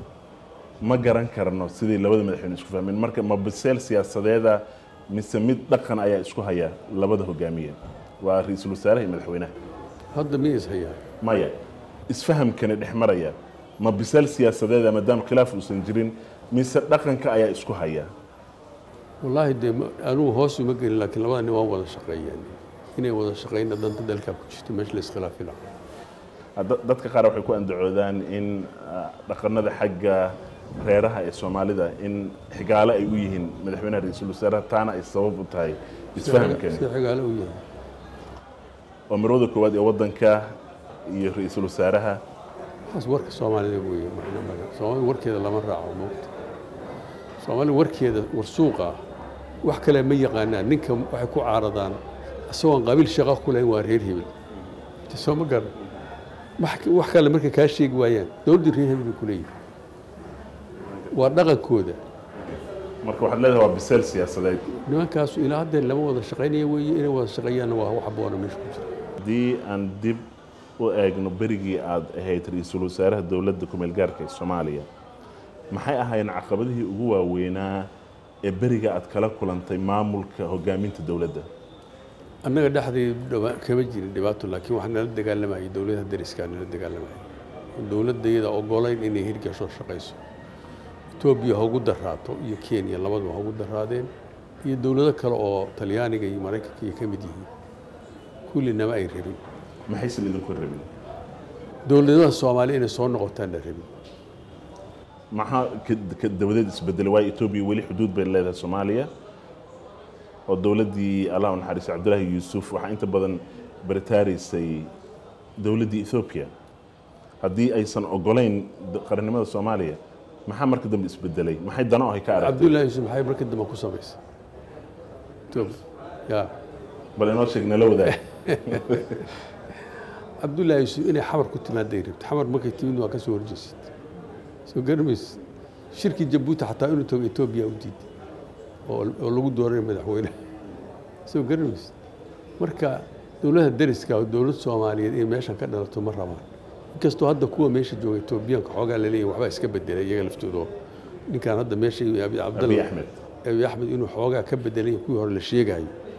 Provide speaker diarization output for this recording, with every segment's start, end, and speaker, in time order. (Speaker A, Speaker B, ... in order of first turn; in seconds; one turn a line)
Speaker A: 0.8-9.5
Speaker B: 10.1-11.0
Speaker A: 11.2-11.6
Speaker A: 12.1-18.1
Speaker B: 19.2-25.6
Speaker A: 26.6-36.8
Speaker B: 36.2-37.6
Speaker A: 39.1-40.5
Speaker A: 41.0-42.2
Speaker B: 42.9-46.3
Speaker B: 47.4-49.0
Speaker B: 49.6-54.3
Speaker B: 55.1-55.7
Speaker B: 56.6-59.5
Speaker B: 61.1-62.0
Speaker A: 63.0-64.6
Speaker B: 64.7-68.9
Speaker A: 69.2-74.9
Speaker A: 75.7-77.9
Speaker A: 78.4-81.5
Speaker B: 82.4-87.2
Speaker B: 87.8-90.2
Speaker B: 91.2-94.1
Speaker B: 94.6-97.5
Speaker B: 98.5-99.4
Speaker A: 99.9-100.9
Speaker B: 101.8-103.9
Speaker A: 105.3-109.1
Speaker A: 110.5-114.9
Speaker A: 115.6-116.5
Speaker A: 117.4-122.8
Speaker B: 122.3-124.2
Speaker B: 125.5-126.5
Speaker A: 127.2-129.2
Speaker B: 128.3-129.0
Speaker B: 130.4-133.9
Speaker B: 134.7-135.4
Speaker B: 135.9-138.1
Speaker B: 138.8-140.4
Speaker B: 141.2-141.9
Speaker B: 142.6-150.7
Speaker B: 151.3-152.9
Speaker A: 152.5-153.2
Speaker B: 153.4-155.9